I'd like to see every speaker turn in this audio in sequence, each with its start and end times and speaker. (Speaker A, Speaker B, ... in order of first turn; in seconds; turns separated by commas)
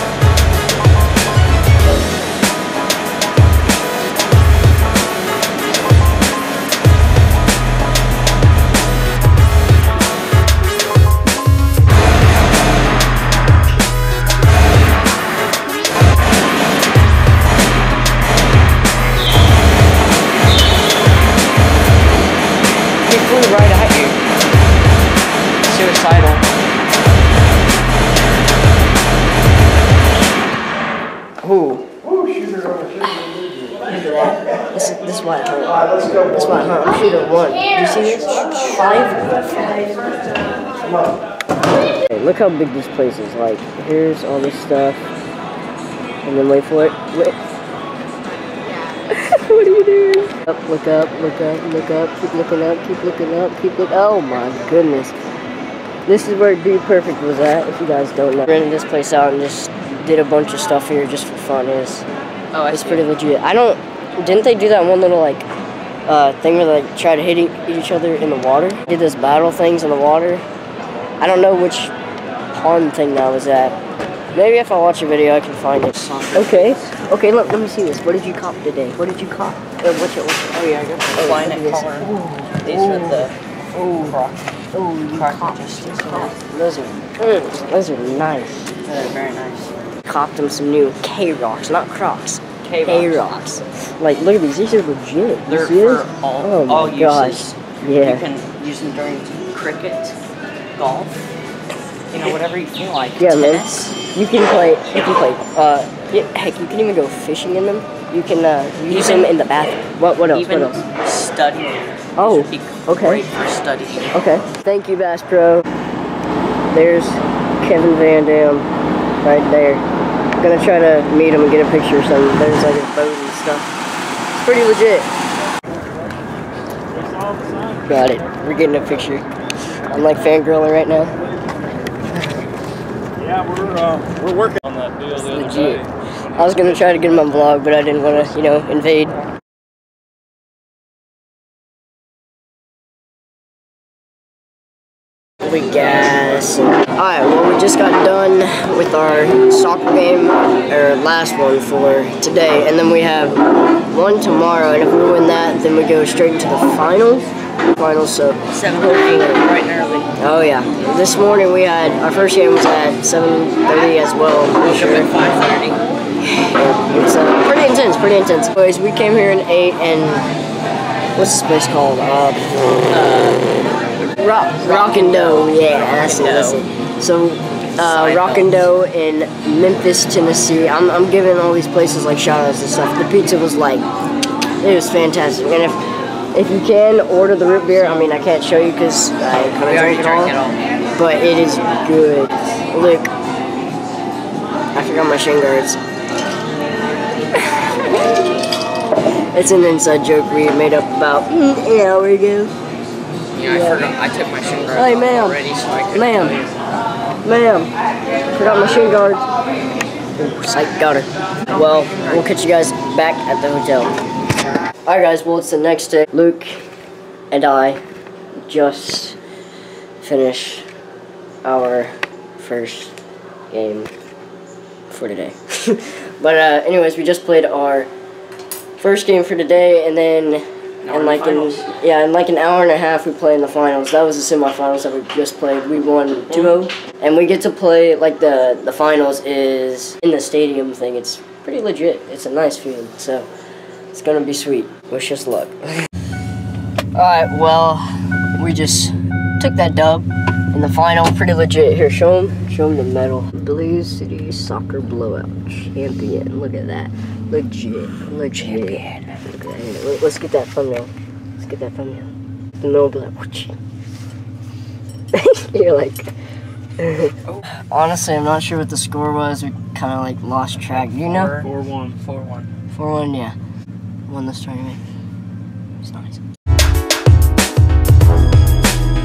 Speaker A: 23.0-24.2, Speaker A: 25.6-26.4, Speaker B: 31.4-31.8, Speaker B: 33.0-33.3, Speaker B: 33.9-40.1, Speaker A: 38.4-38.8, Speaker B: 42.1-45.0, Speaker B: 46.2-47.4, Speaker B: 48.9-55.1, Speaker B: 56.0-62.0, Speaker A: 62.5-63.0, Speaker B: 62.7-65.5, Speaker B: 66.1-70.4, Speaker B: 71.2-71.9, Speaker B: 72.5-73.8, Speaker B: 74.3-84.2, Speaker A: 75.9-77.0, Speaker A: 80.5-83.3, Speaker A: 84.0-84.5, Speaker B: 84.7-88.7, Speaker A: 85.1-86.3, Speaker A: 88.8-89.7, Speaker B: 90.0-98.2, Speaker A: 92.6-93.3, Speaker A: 95.5-100.2, Speaker A: 100.8-101.2, Speaker A: 102.1-104.0, Speaker B: 103.2-110.8, Speaker A: 108.9-109.3, Speaker A: 110.3-114.2, Speaker B: 112.2-113.2, Speaker B: 114.1-115.7, Speaker B: 116.7-118.7, Speaker B: 119.2-119.8, Speaker B: 120.4-123.7, Speaker B: 124.3-125.1, Speaker C: 127.2-127.8, Speaker B: 127.8-129.2, Speaker B: 129.8-131.1, Speaker C: 133.2-135.1, Speaker B: 135.1-139.2, Speaker B: 145.4-159.4, Speaker A: 158.5-160.1, Speaker B: 160.2-165.1, Speaker A: 164.6-165.8, Speaker B: 166.2-170.3, Speaker B: 171.2-172.8, Speaker A: 172.9-176.6, Speaker B: 174.2-183.8, Speaker A: 177.8-178.7, Speaker B: 184.6-185.8, Speaker B: 186.3-190.3, Speaker A: 189.6-190.6, Speaker B: 191.0-193.1, Speaker B: 194.7-195.8, Speaker B: 197.3-198.2, Speaker B: 199.3-202.5, Speaker A: 203.3-206.5, Speaker B: 203.4-203.8, Speaker B: 204.7-206.4, Speaker B: 207.2-207.7, Speaker B: 208.3-209.3, Speaker B: 210.2-213.9, Speaker A: 211.5-212.2, Speaker B: 214.8-216.6, Speaker B: 217.3-217.8, Speaker B: 218.4-219.2, Speaker B: 220.0-220.7, Speaker B: 221.4-222.9, Speaker B: 223.5-223.9, Speaker B: 224.9-227.9, Speaker B: 228.8-243.3, Speaker A: 230.8-231.7, Speaker A: 236.3-236.6, Speaker B: 243.9-245.7, Speaker B: 246.9-262.1, Speaker B: 262.6-263.6, Speaker B: 265.1-266.1, Speaker B: 266.8-271.3, Speaker A: 270.7-272.5, Speaker B: 272.7-273.4, Speaker B: 274.1-274.8, Speaker B: 275.8-276.2